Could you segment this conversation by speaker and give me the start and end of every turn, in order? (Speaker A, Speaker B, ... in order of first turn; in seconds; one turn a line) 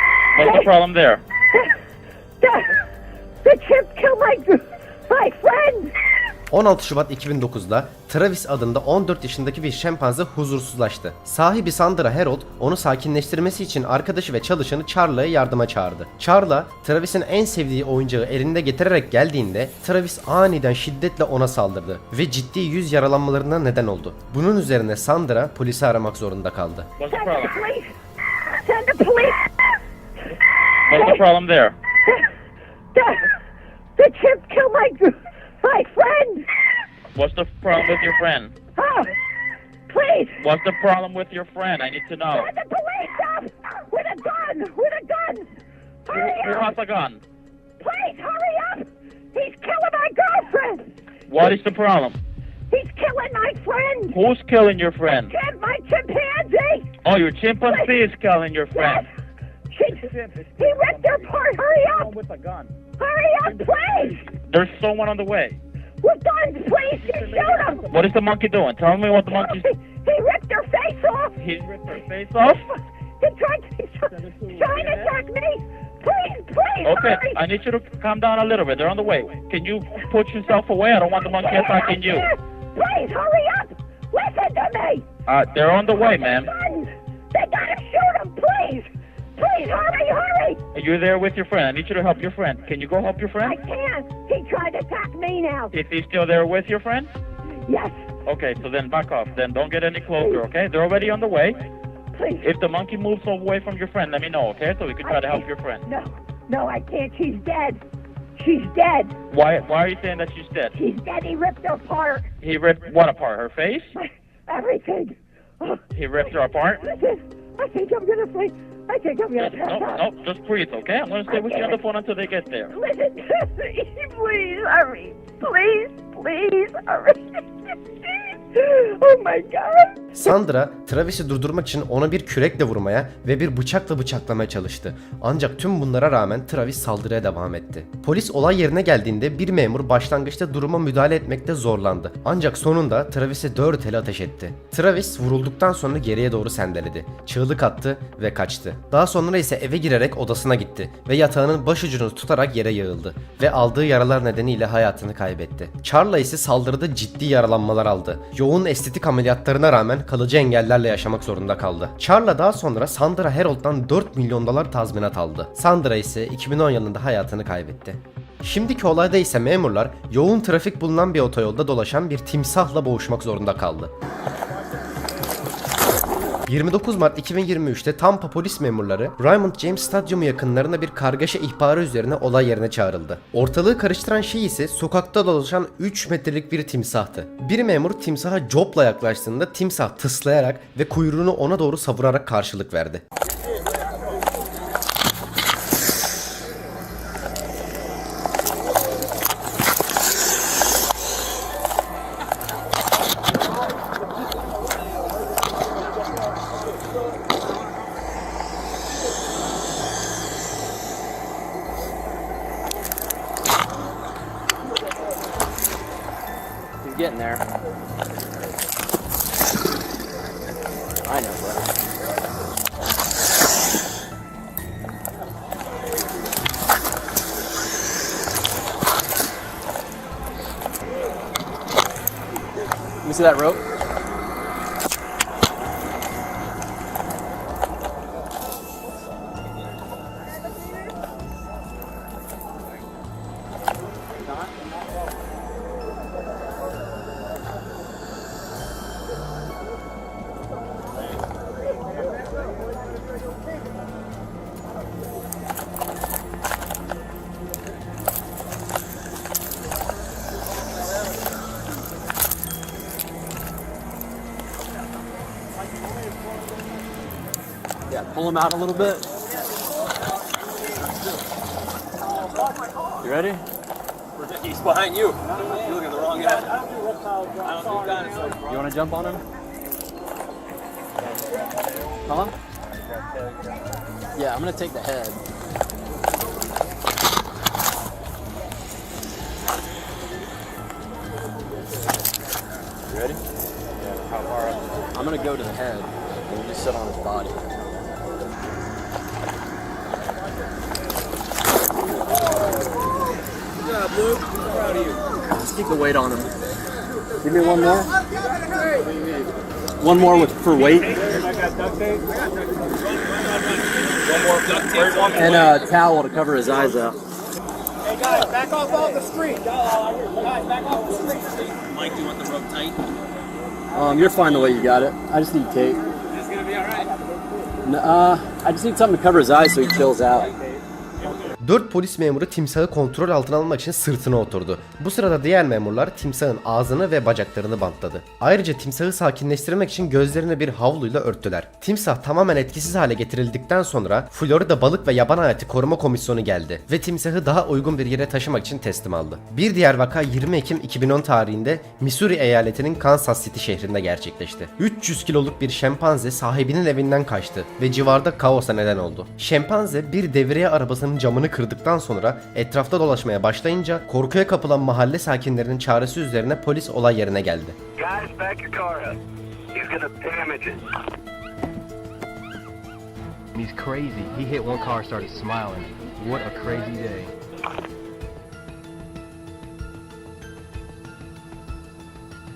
Speaker A: 0.3-1.2
Speaker B: 0.4-0.7
Speaker B: 2.4-2.8
Speaker B: 3.4-5.9
Speaker C: 6.5-26.9
Speaker A: 27.0-27.6
Speaker B: 27.0-27.9
Speaker B: 28.5-29.5
Speaker A: 30.9-31.7
Speaker B: 30.9-31.2
Speaker B: 32.9-33.3
Speaker B: 34.0-36.5
Speaker A: 37.1-38.5
Speaker B: 38.8-39.1
Speaker B: 39.9-40.4
Speaker A: 40.4-42.5
Speaker B: 42.3-45.5
Speaker B: 46.0-46.7
Speaker A: 46.1-47.2
Speaker B: 47.8-50.9
Speaker A: 51.3-52.2
Speaker B: 52.7-54.2
Speaker A: 54.1-55.4
Speaker B: 55.1-56.9
Speaker A: 57.0-59.0
Speaker B: 57.6-58.0
Speaker B: 58.7-59.1
Speaker B: 59.7-62.2
Speaker B: 63.0-64.3
Speaker A: 64.5-65.6
Speaker B: 66.0-67.9
Speaker A: 67.9-69.7
Speaker B: 69.1-71.3
Speaker A: 71.4-72.7
Speaker B: 73.2-77.4
Speaker A: 76.8-82.3
Speaker B: 81.2-85.0
Speaker A: 85.3-86.5
Speaker B: 85.9-90.6
Speaker A: 90.7-93.6
Speaker B: 93.4-95.7
Speaker A: 95.7-97.1
Speaker B: 97.7-98.0
Speaker A: 98.2-101.6
Speaker B: 100.2-100.4
Speaker B: 102.1-102.5
Speaker A: 102.4-105.8
Speaker B: 105.0-107.8
Speaker B: 108.4-109.2
Speaker A: 109.3-110.7
Speaker B: 110.7-112.3
Speaker A: 112.4-113.9
Speaker B: 114.0-120.0
Speaker A: 115.9-116.8
Speaker A: 119.4-122.7
Speaker B: 121.3-121.8
Speaker B: 122.7-130.0
Speaker C: 130.1-173.9
Speaker C: 176.5-193.0
Speaker D: 216.8-217.4
Speaker D: 221.0-221.7
Speaker D: 233.0-233.6
Speaker D: 267.9-269.1
Speaker D: 273.0-273.4
Speaker E: 274.1-276.6
Speaker E: 277.4-278.6
Speaker D: 278.4-279.2
Speaker D: 282.1-282.3
Speaker D: 284.1-285.2
Speaker D: 292.9-293.2
Speaker D: 294.9-297.7
Speaker D: 305.4-306.3
Speaker D: 307.2-307.9
Speaker D: 309.8-311.1
Speaker E: 314.1-315.6
Speaker D: 315.1-317.0
Speaker E: 321.6-322.9
Speaker D: 323.7-325.9
Speaker D: 327.6-330.3
Speaker C: 331.4-367.6
Speaker F: 367.8-368.9
Speaker F: 369.5-370.6
Speaker G: 373.3-377.1